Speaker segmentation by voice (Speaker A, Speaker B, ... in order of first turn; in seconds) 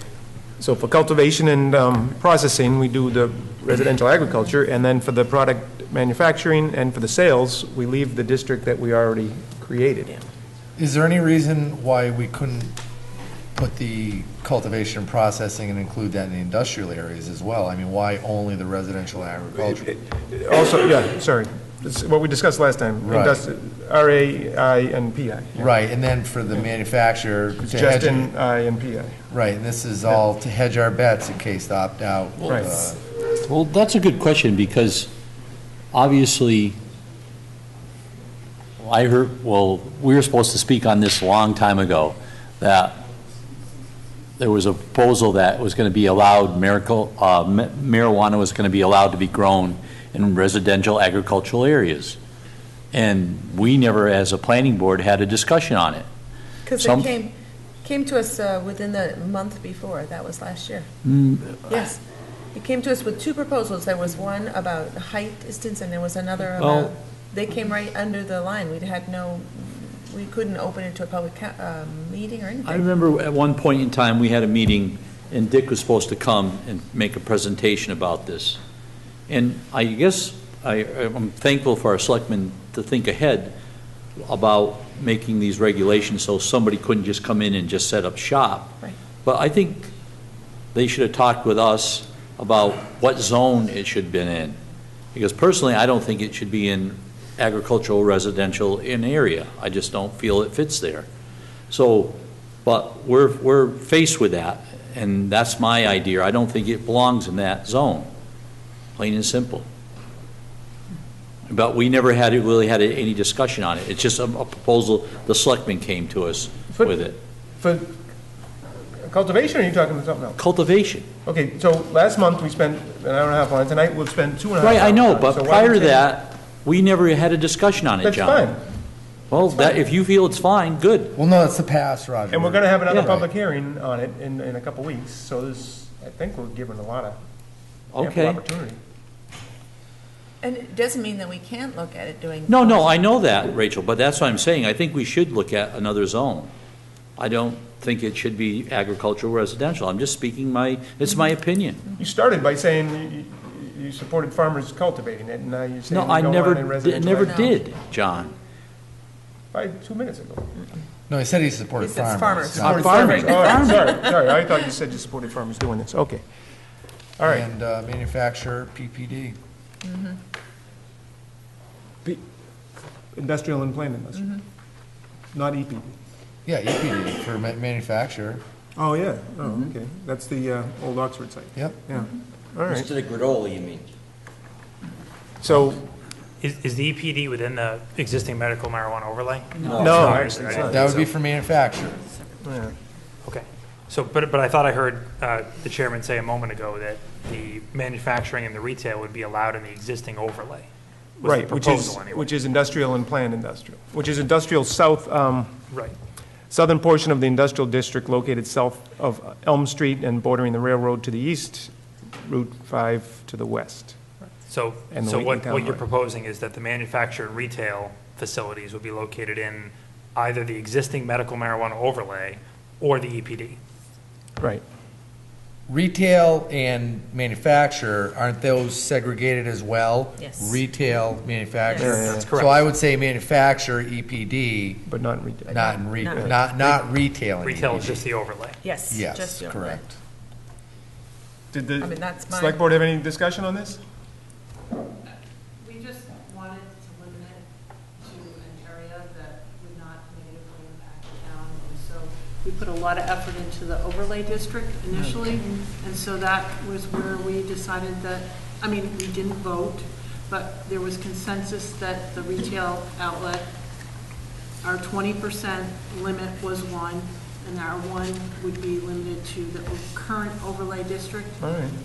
Speaker A: 0.6-10.2, 19.6-25.7, 27.6-29.2, 32.5-32.8, 116.7-117.0, 117.6-117.9, 119.0-120.4, 121.2-126.1, 128.0-128.6, 129.4-129.8, 132.3-137.2, 138.0-138.8, 152.0-157.5, 159.5-160.5, 162.6-166.2, 167.2-167.4, 173.1-174.4, 175.3-176.0, 178.8-182.9, 185.4-185.8, 189.8-191.1, 192.4-192.7, 201.2-205.5, 206.5-214.0, 214.9-215.8, 231.8-232.2, 234.8-236.7, 241.5-243.8, 271.4-271.8
Speaker B: 10.8-12.8, 13.5-19.9, 23.0-23.4, 25.6-28.3, 29.3-33.0, 131.1-133.3, 161.1-163.3, 167.2-169.4, 176.4-178.4, 190.6-192.0, 225.7-234.8, 235.5-238.1, 238.9-239.9
Speaker C: 33.2-35.1, 35.9-36.8, 38.8-43.0, 44.4-52.2, 52.9-56.1, 56.8-57.1, 61.0-61.9, 66.5-66.9, 72.6-78.6, 79.3-83.5, 84.2-89.9, 90.7-94.6, 95.1-101.1, 101.7-108.1, 109.0-109.7, 111.5-117.2, 120.4-121.1, 124.6-128.5, 129.3-131.1, 132.9-133.2, 137.9-138.4, 142.5-146.5, 147.2-151.8, 155.9-158.3, 162.6-163.8, 189.6-190.2
Speaker D: 56.6-60.9, 61.7-62.0, 62.5-72.8, 140.4-143.0, 157.1-157.6, 161.8-164.2, 169.8-170.2, 230.2-230.6, 231.7-232.3, 235.5-236.4, 238.6-239.9, 241.8-242.6
Speaker E: 182.7-183.9, 189.6-190.7
Speaker F: 186.4-190.9, 193.2-200.7, 201.2-202.3, 205.7-205.9, 214.5-223.6, 232.1-232.7, 237.4-238.6
Speaker G: 245.6-263.9, 264.6-271.5